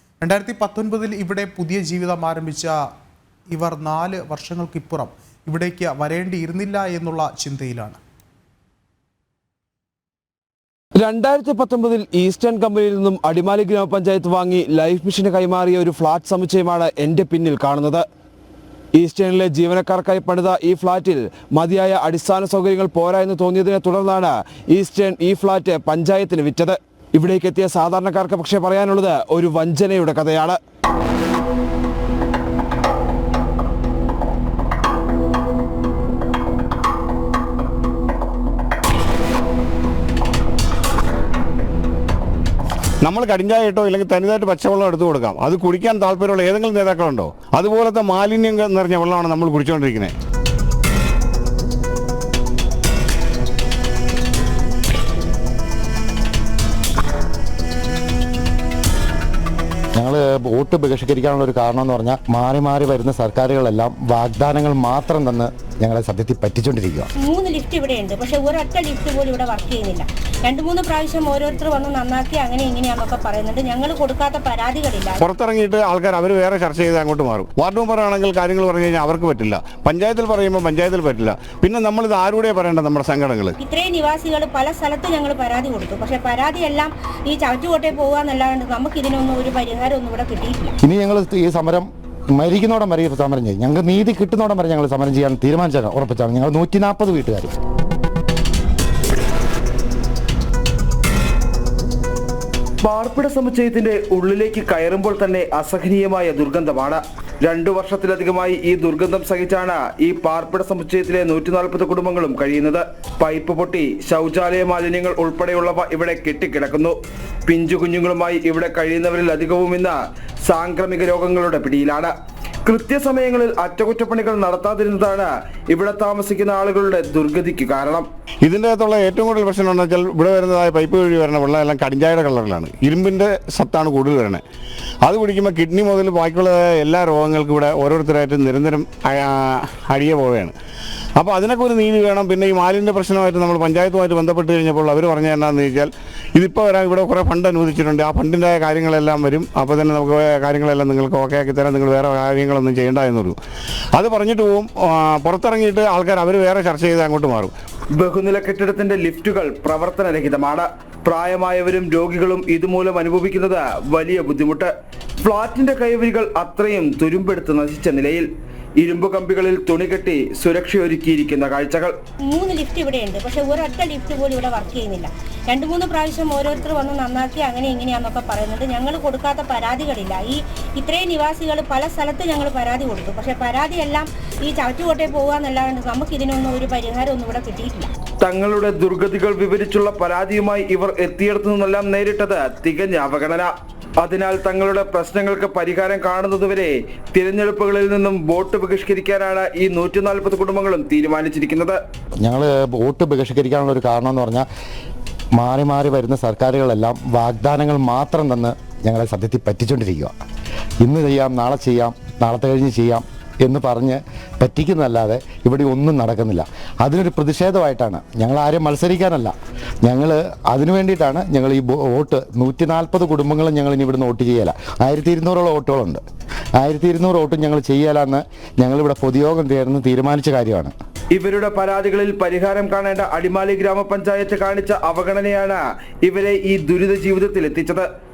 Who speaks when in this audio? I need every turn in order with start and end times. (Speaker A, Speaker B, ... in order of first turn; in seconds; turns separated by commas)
Speaker A: 0.2-2.8, Speaker A: 3.5-8.0, Speaker B: 11.0-18.1, Speaker B: 18.9-30.6, Speaker C: 43.0-50.1, Speaker D: 60.0-67.1, Speaker E: 67.2-75.2, Speaker C: 75.2-83.5, Speaker E: 83.6-90.7, Speaker D: 90.8-97.5, Speaker F: 102.8-117.0, Speaker F: 117.5-122.1, Speaker F: 122.6-128.1, Speaker C: 128.4-134.4, Speaker C: 135.0-140.5, Speaker C: 141.2-153.4, Speaker C: 153.9-157.5, Speaker F: 158.0-168.3, Speaker F: 168.8-171.9, Speaker E: 172.3-187.9, Speaker F: 188.2-201.8, Speaker D: 202.2-204.4, Speaker D: 205.3-210.1, Speaker D: 210.8-226.0, Speaker D: 226.6-230.7, Speaker F: 231.1-237.8